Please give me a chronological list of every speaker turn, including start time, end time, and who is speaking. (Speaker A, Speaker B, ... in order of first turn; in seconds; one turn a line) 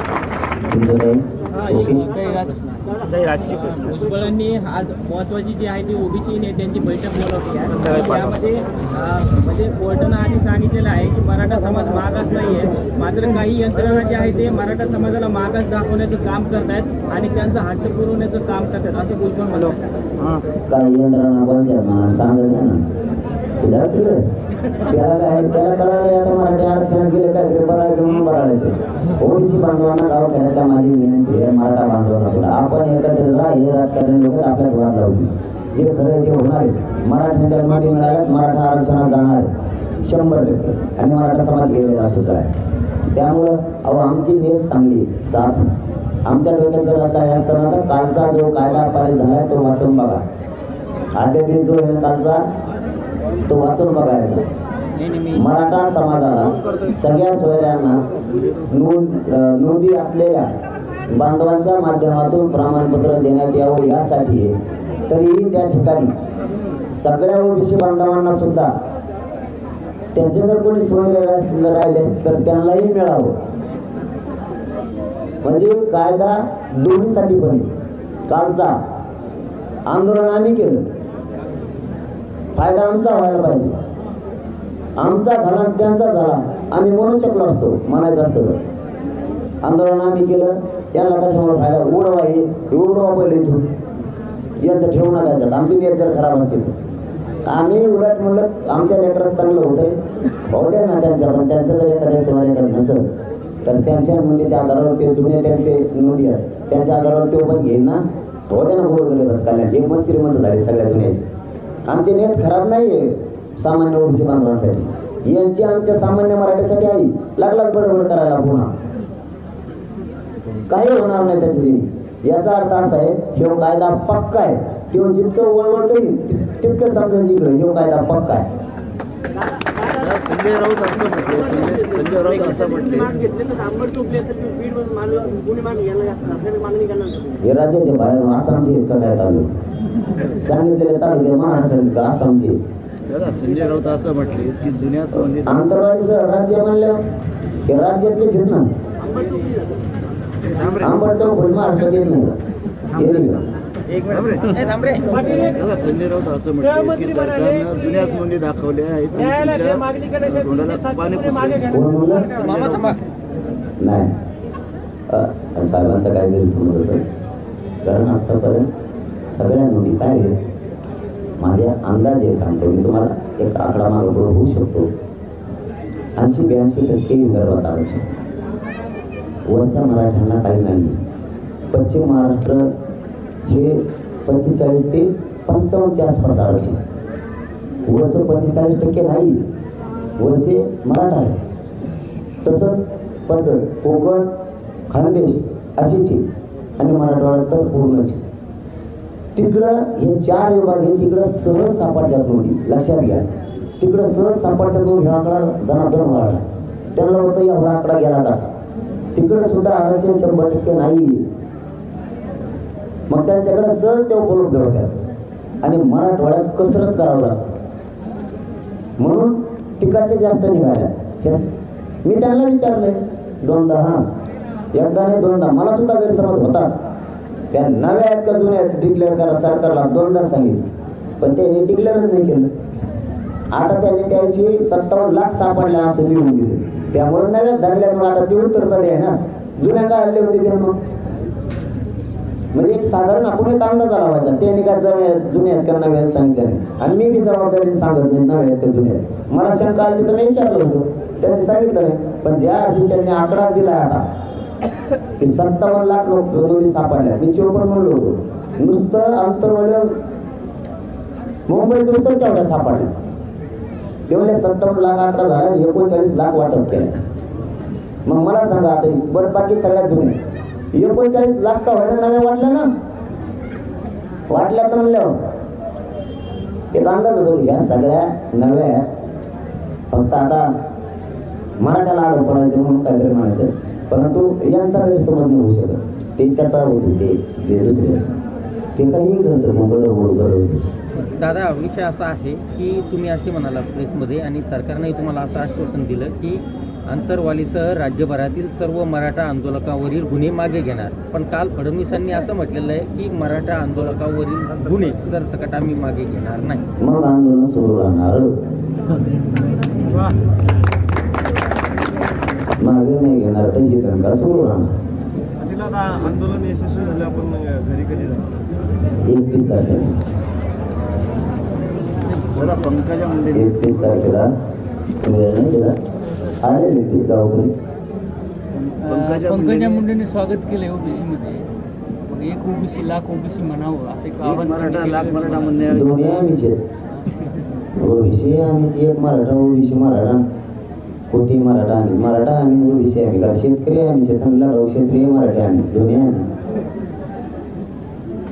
Speaker A: 0.7-2.1
Speaker B: 2.1-4.4
Speaker C: 4.3-19.3
Speaker B: 6.8-8.4
Speaker B: 12.2-15.0
Speaker B: 16.0-19.7
Speaker A: 20.7-22.8
Speaker A: 23.6-24.2
Speaker A: 24.9-39.5
Speaker A: 40.0-42.5
Speaker A: 43.1-45.7
Speaker A: 46.2-50.2
Speaker A: 51.2-52.4
Speaker A: 53.5-54.4
Speaker A: 55.3-58.0
Speaker A: 58.7-60.5
Speaker A: 61.1-64.5
Speaker A: 65.1-66.1
Speaker A: 67.0-68.7
Speaker A: 70.2-73.3
Speaker A: 75.4-77.7
Speaker A: 78.3-78.7
Speaker A: 79.9-80.8
Speaker A: 82.5-83.7
Speaker A: 85.0-88.6
Speaker A: 89.6-93.6
Speaker A: 94.6-96.7
Speaker A: 97.5-100.0
Speaker A: 100.5-103.1
Speaker A: 103.7-111.2
Speaker A: 111.9-118.7
Speaker A: 120.7-128.5
Speaker D: 129.8-133.3
Speaker D: 134.9-135.2
Speaker A: 137.4-139.5
Speaker A: 140.4-142.6
Speaker D: 143.1-145.6
Speaker A: 145.4-147.0
Speaker A: 147.7-148.7
Speaker D: 150.5-150.9
Speaker A: 150.8-152.3
Speaker A: 152.9-153.5
Speaker D: 154.1-154.4
Speaker E: 154.5-155.2
Speaker D: 155.2-161.7
Speaker A: 161.7-162.3
Speaker D: 162.3-163.0
Speaker E: 162.4-163.0
Speaker A: 163.8-164.1
Speaker A: 165.1-167.1
Speaker A: 167.8-168.7
Speaker A: 169.3-170.3
Speaker A: 171.4-174.9
Speaker A: 176.2-178.1
Speaker A: 179.5-181.0
Speaker A: 181.7-182.7
Speaker A: 183.5-186.8
Speaker A: 187.9-189.4
Speaker A: 190.2-191.4
Speaker A: 192.4-194.3
Speaker A: 194.9-196.2
Speaker A: 196.8-198.2
Speaker A: 199.3-203.2
Speaker A: 203.8-206.4
Speaker A: 206.9-208.5
Speaker A: 209.2-211.2
Speaker A: 213.1-214.9
Speaker A: 215.6-217.4
Speaker A: 219.0-221.5
Speaker A: 222.0-224.0
Speaker A: 224.8-226.8
Speaker A: 227.5-230.6
Speaker A: 231.2-232.5
Speaker A: 233.5-240.8
Speaker A: 242.5-254.0
Speaker A: 255.2-259.9
Speaker A: 261.5-262.9
Speaker A: 264.1-266.9
Speaker A: 268.1-270.1
Speaker A: 270.7-272.7
Speaker A: 274.3-275.1
Speaker A: 276.7-278.9
Speaker A: 279.9-280.5
Speaker A: 281.6-288.1
Speaker A: 288.8-290.6
Speaker E: 291.0-306.6
Speaker A: 306.8-308.3
Speaker A: 312.6-314.7
Speaker D: 315.9-316.2
Speaker A: 319.1-319.9
Speaker D: 322.3-324.0
Speaker A: 323.3-324.3
Speaker A: 325.0-325.8
Speaker A: 326.4-327.5
Speaker D: 328.5-329.9
Speaker B: 328.9-331.5
Speaker B: 332.1-335.6
Speaker D: 334.2-336.2
Speaker A: 335.7-336.6
Speaker A: 337.8-340.2
Speaker A: 341.1-346.4